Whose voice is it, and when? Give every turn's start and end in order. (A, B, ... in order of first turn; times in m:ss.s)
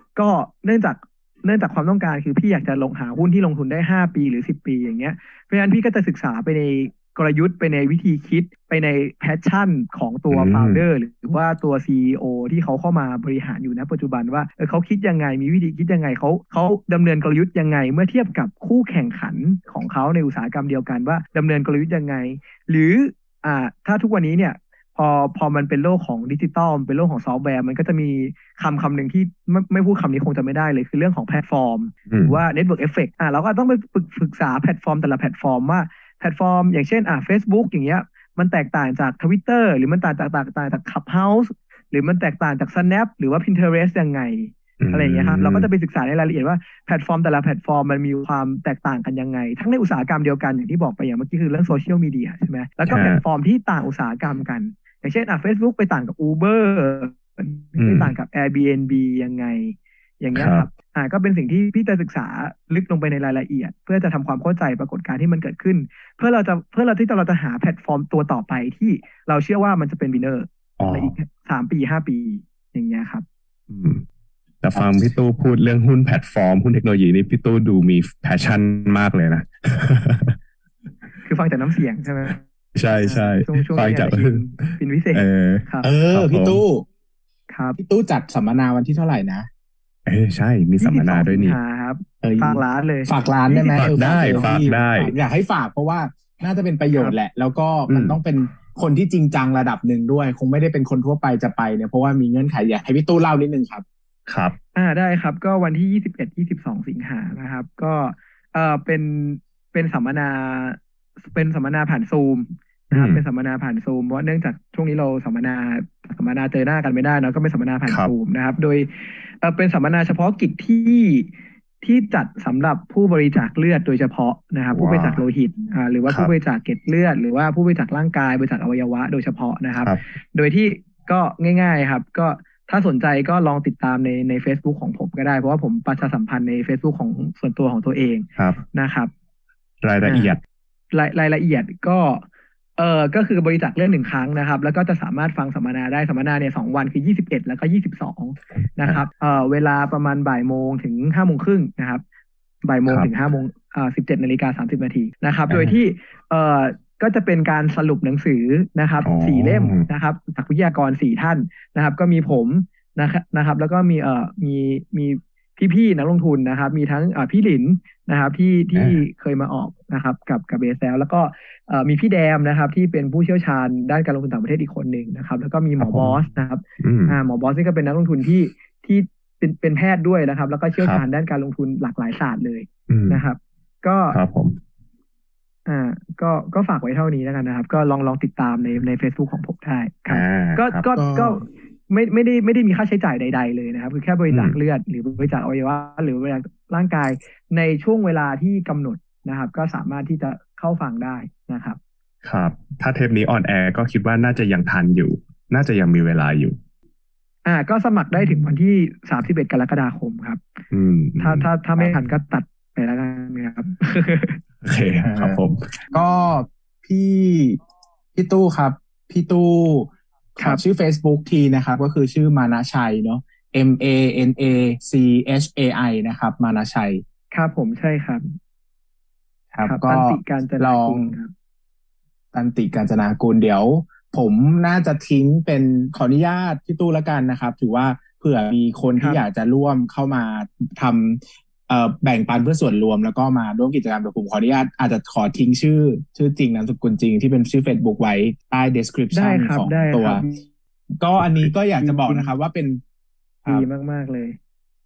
0:00.2-1:13.2 A
0:10.3-0:10.8 B
0:32.1-0:32.4 B
0:44.8-0:45.7 B
0:52.9-0:53.2 B
0:57.8-0:58.1 B
1:00.3-1:00.7 B
1:10.8-1:11.1 B
1:13.7-1:14.0 B
1:14.6-1:20.4 B
1:21.2-1:22.4 A
1:22.8-1:26.6 B
1:23.0-1:25.9 A
1:25.8-1:26.8 C
1:27.5-1:27.8 A
1:27.8-1:29.5 C
1:30.1-1:31.6 B
1:30.8-1:34.6 A
1:32.2-1:43.8 C
1:33.8-1:35.1 B
1:37.9-1:38.2 B
1:44.3-1:44.6 B
1:44.7-2:01.3 A
1:52.9-1:53.2 B
1:57.9-1:58.1 B
2:01.8-2:19.1 A
2:04.7-2:05.2 B
2:06.1-2:06.3 B
2:18.4-2:18.6 B
2:19.8-2:20.4 B
2:20.0-2:20.4 A
2:20.9-2:22.2 A
2:22.8-2:32.0 A
2:32.6-3:04.2 A
2:32.9-2:33.1 B
2:35.5-2:35.8 B
2:39.0-2:39.9 B
2:48.8-2:49.0 B
2:55.8-2:56.2 B
2:56.8-2:57.2 B
3:00.8-3:01.0 B
3:02.9-3:03.2 B
3:04.1-3:04.6 B
3:05.7-3:21.8 A
3:10.1-3:10.8 B
3:10.9-3:11.4 C
3:14.3-3:14.6 B
3:22.2-3:26.6 B
3:27.4-3:30.4 A
3:30.7-3:31.5 B
3:31.2-3:34.4 A
3:34.6-3:35.6 B
3:35.0-3:35.4 C
3:35.9-3:37.6 C
3:38.2-3:47.0 C
3:47.3-3:48.4 A
3:49.5-3:51.2 C
3:49.6-3:51.3 A
3:52.3-4:10.2 C
3:59.0-3:59.2 A
4:09.1-4:10.4 A
4:11.0-4:12.8 C
4:11.2-4:11.5 B
4:11.8-4:12.3 A
4:13.5-4:14.4 A